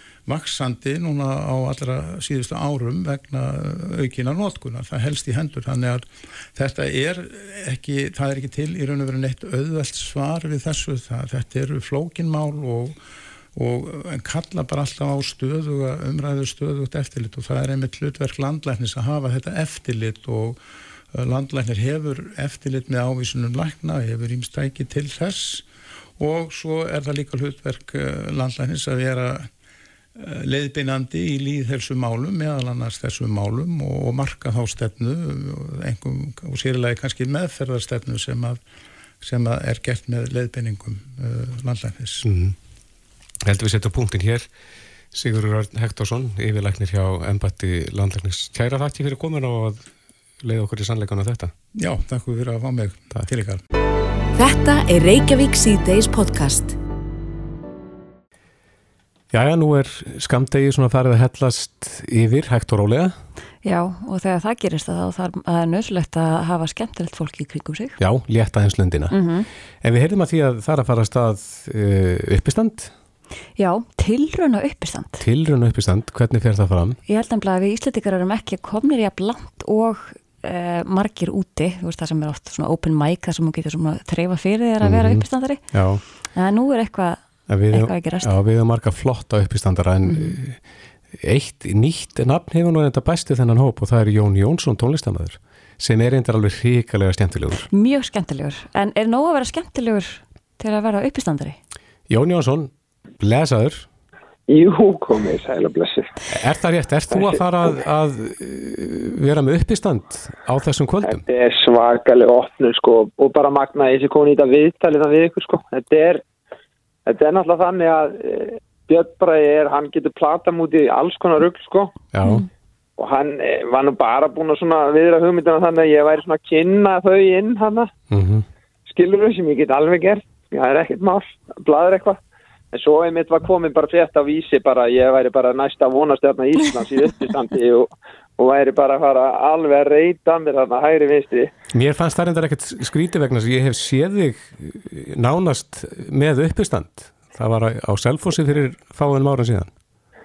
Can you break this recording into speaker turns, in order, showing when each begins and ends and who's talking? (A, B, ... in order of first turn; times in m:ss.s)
0:00.3-0:12.9 A
0:13.5-0:20.6 A
0:21.1-0:25.6 A
0:26.2-0:29.5 A
0:30.2-0:38.6 A
0:39.2-0:42.3 A
0:42.2-0:42.5 B
0:43.4-0:44.5 B
0:45.1-0:49.9 B
0:50.4-0:51.5 B
0:51.8-0:53.6 A
0:54.4-0:56.7 C
0:59.3-1:03.2 B
1:03.6-1:08.0 D
1:08.0-1:09.2 B
1:09.1-1:09.5 D
1:09.8-1:12.9 B
1:13.6-1:15.2 D
1:15.2-1:17.0 B
1:17.0-1:25.6 D
1:24.8-1:26.0 B
1:26.3-1:28.3 D
1:27.5-1:30.6 B
1:30.0-1:30.4 D
1:31.1-1:37.6 B
1:37.7-1:41.6 D
1:42.1-1:43.9 B
1:44.5-1:46.1 E
1:46.3-1:51.2 B
1:47.1-1:47.4 E
1:51.0-1:56.2 E
1:57.0-2:01.9 E
2:02.1-2:02.4 B
2:03.0-2:07.9 E
2:08.1-2:08.4 B
2:08.9-2:12.2 E
2:12.7-2:21.5 E
2:21.7-2:29.7 B